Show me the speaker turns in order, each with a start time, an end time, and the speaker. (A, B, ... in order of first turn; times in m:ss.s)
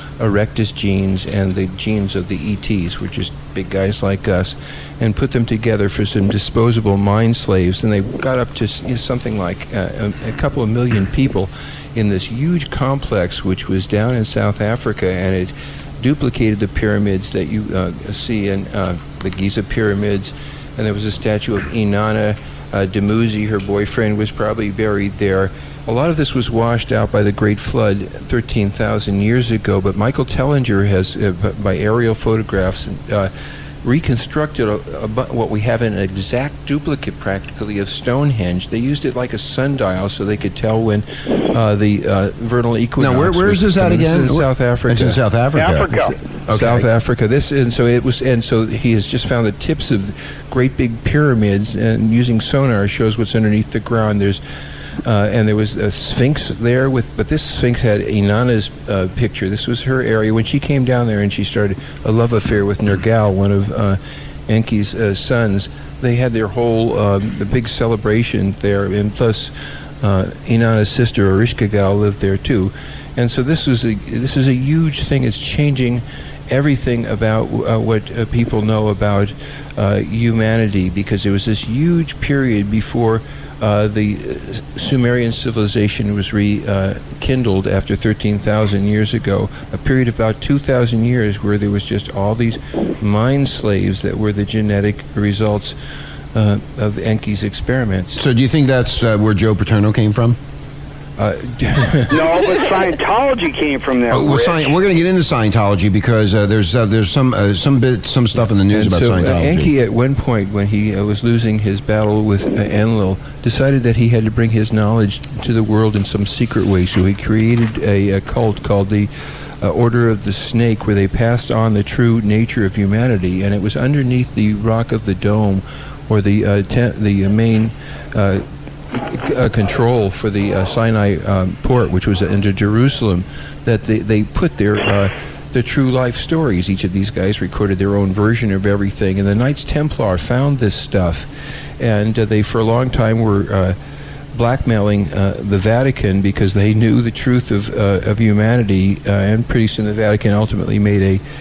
0:00.2-0:33.3 A
0:33.8-0:45.2 A
0:43.0-0:45.9 B
0:45.5-0:46.1 C
0:45.9-0:54.4 A
0:46.5-0:46.9 B
0:55.0-1:35.8 A
1:36.3-1:38.2 A
1:38.2-1:40.4 B
1:41.2-1:42.7 A
1:42.1-1:44.8 C
1:44.1-1:49.7 B
1:48.7-1:59.1 A
1:59.6-2:21.3 A
2:21.8-2:23.8 A
2:24.3-2:31.2 A